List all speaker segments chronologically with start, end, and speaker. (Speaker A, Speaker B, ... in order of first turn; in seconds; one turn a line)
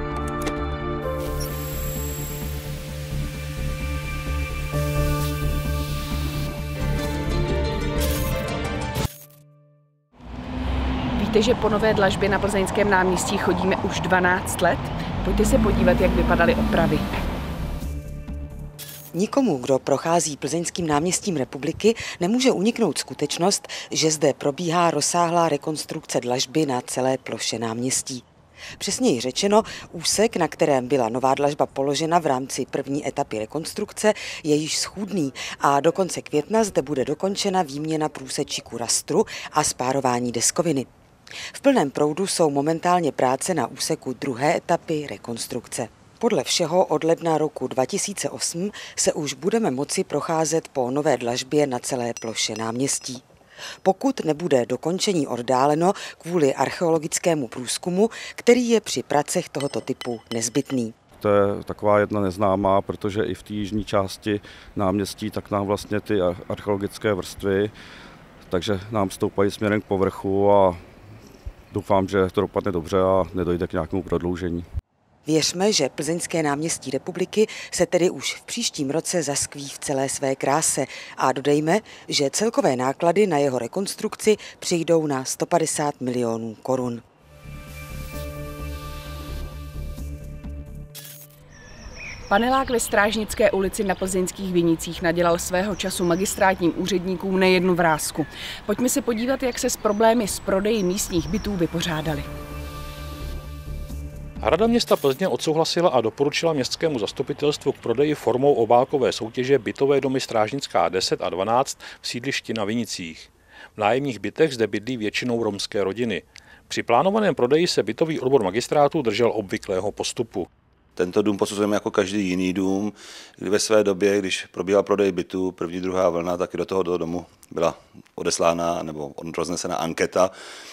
Speaker A: 11.2-17.1
Speaker B: 19.1-28.2
Speaker B: 28.8-40.9
Speaker B: 41.5-53.2
Speaker B: 53.8-60.9
Speaker C: 61.1-67.7
Speaker C: 68.5-70.8
Speaker C: 71.7-74.7
Speaker B: 75.2-87.0
Speaker A: 92.3-102.3
Speaker D: 104.4-120.5
Speaker E: 121.0-130.3